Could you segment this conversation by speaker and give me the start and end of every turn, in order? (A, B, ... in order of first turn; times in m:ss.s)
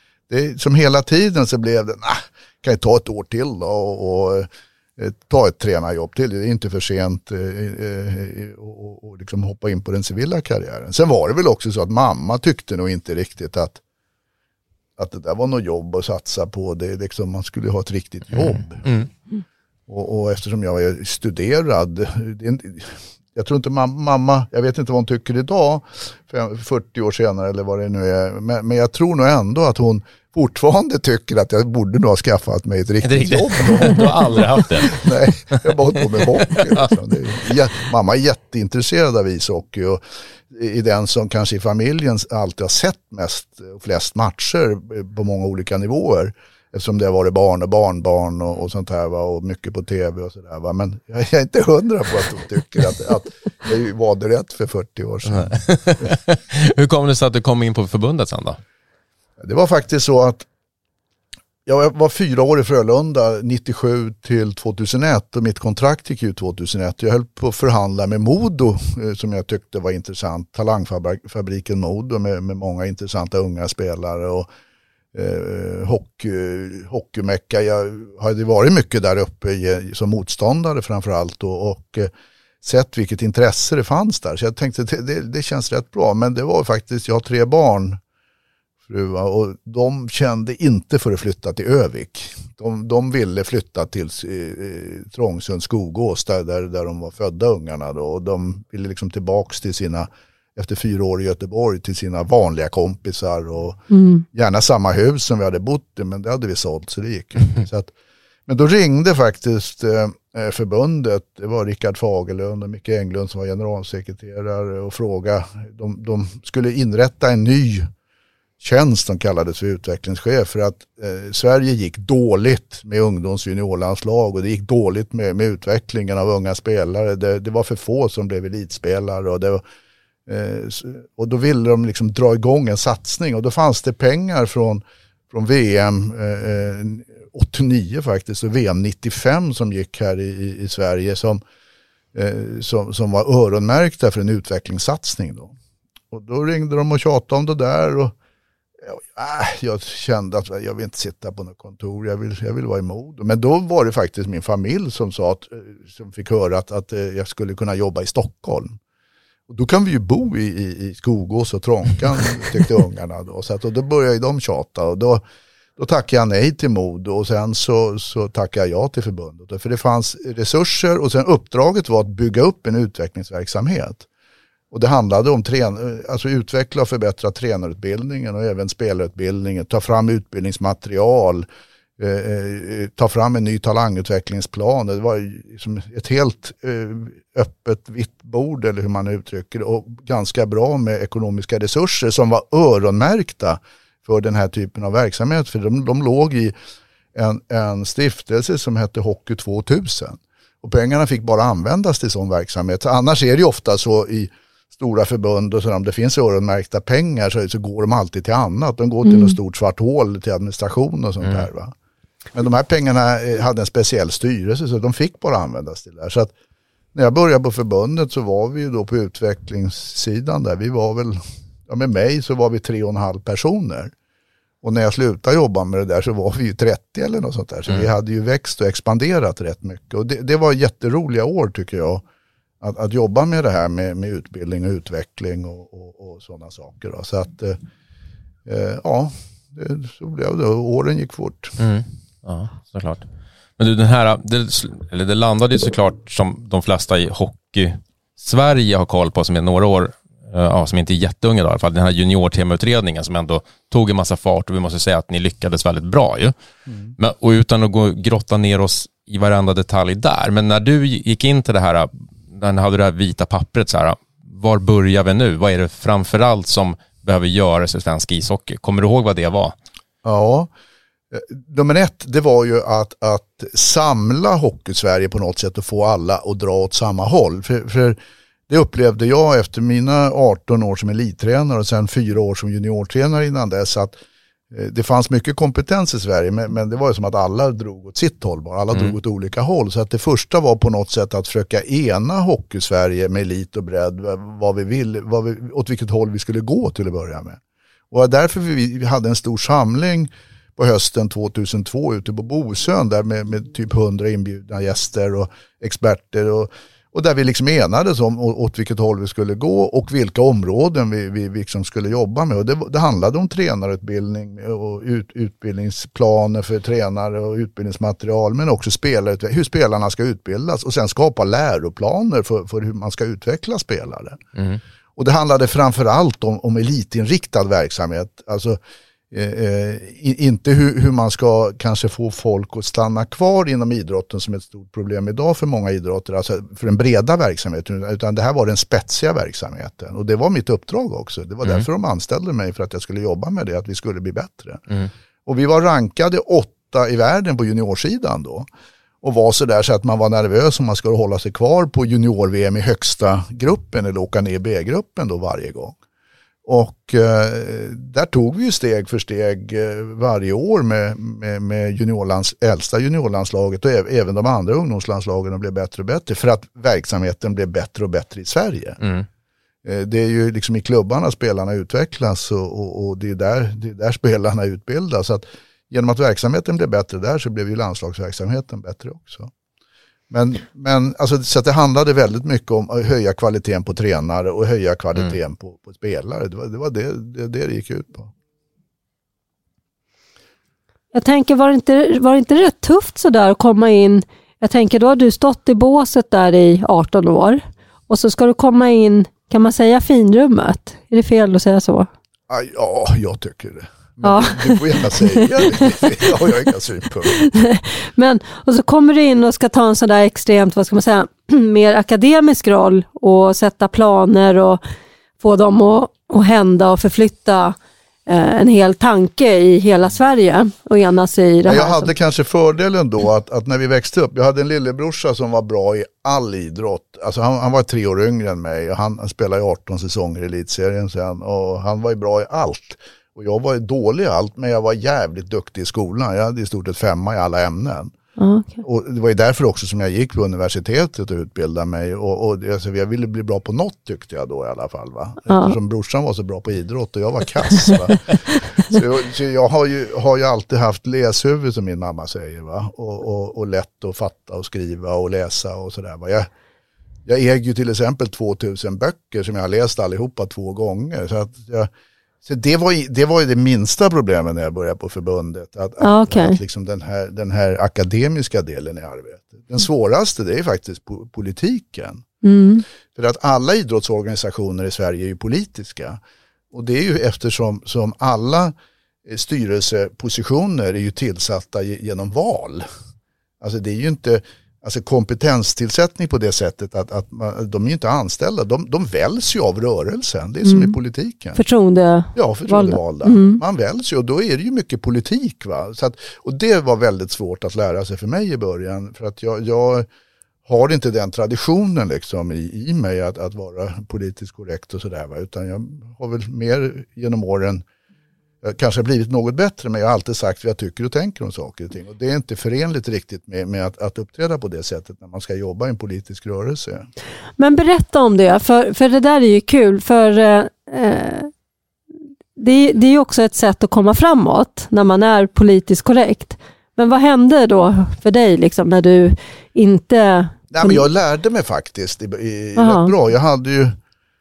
0:00.3-0:13.8 A
0:15.0-0:19.0 A
0:19.9-0:55.5 A
0:33.0-0:36.9 B
0:55.3-0:58.6 B
0:59.4-1:00.5 A
1:01.6-1:14.5 A
1:15.1-1:22.1 A
1:22.6-1:28.0 A
1:28.9-1:43.8 A
1:43.9-1:44.2 C
1:44.3-1:47.9 A
1:48.5-1:57.9 A
1:58.6-2:09.6 A
2:10.3-2:21.4 A
2:22.1-2:25.5 A
2:26.1-2:28.1 A
2:28.8-2:38.8 A
2:39.5-2:45.2 A
2:45.8-2:54.0 A
2:54.7-3:01.4 A
3:02.0-3:16.5 A
3:17.1-3:31.7 A
3:29.0-3:29.4 C
3:32.3-3:36.3 A
3:36.9-3:43.9 A
3:44.6-3:52.0 A
3:52.6-3:57.6 A
3:58.4-4:01.6 A
4:01.6-4:16.3 B
4:17.0-4:29.5 B
4:30.0-4:30.5 A
4:31.1-4:38.0 A
4:38.5-4:43.9 A
4:44.5-4:57.4 A
4:57.9-5:24.2 A
5:24.4-5:24.6 B
5:25.0-5:28.6 A
5:29.1-5:44.6 A
5:45.2-5:48.5 A
5:49.0-5:55.8 A
5:56.4-6:08.8 A
6:08.8-6:09.0 B
6:09.6-6:19.3 A
6:20.1-6:28.1 A
6:30.9-6:41.9 C
6:42.3-6:47.2 A
6:44.0-6:46.1 C
6:47.1-6:54.6 C
6:55.2-7:01.9 C
7:01.4-7:17.9 A
7:18.2-7:18.6 C
7:18.6-7:36.3 A
7:25.3-7:25.6 C
7:37.0-7:41.7 A
7:42.2-7:52.0 A
7:45.8-7:46.4 C
7:52.2-7:52.6 C
7:52.9-7:56.0 A
7:56.5-7:58.5 A
7:59.0-8:02.6 A
8:03.4-8:11.4 A
8:10.4-8:10.7 C
8:11.3-8:13.4 C
8:12.1-8:19.9 A
8:20.4-8:27.6 A
8:28.4-8:36.8 A
8:37.4-8:41.3 C
8:42.4-8:50.8 C
8:50.5-8:53.8 A
8:52.6-8:52.9 C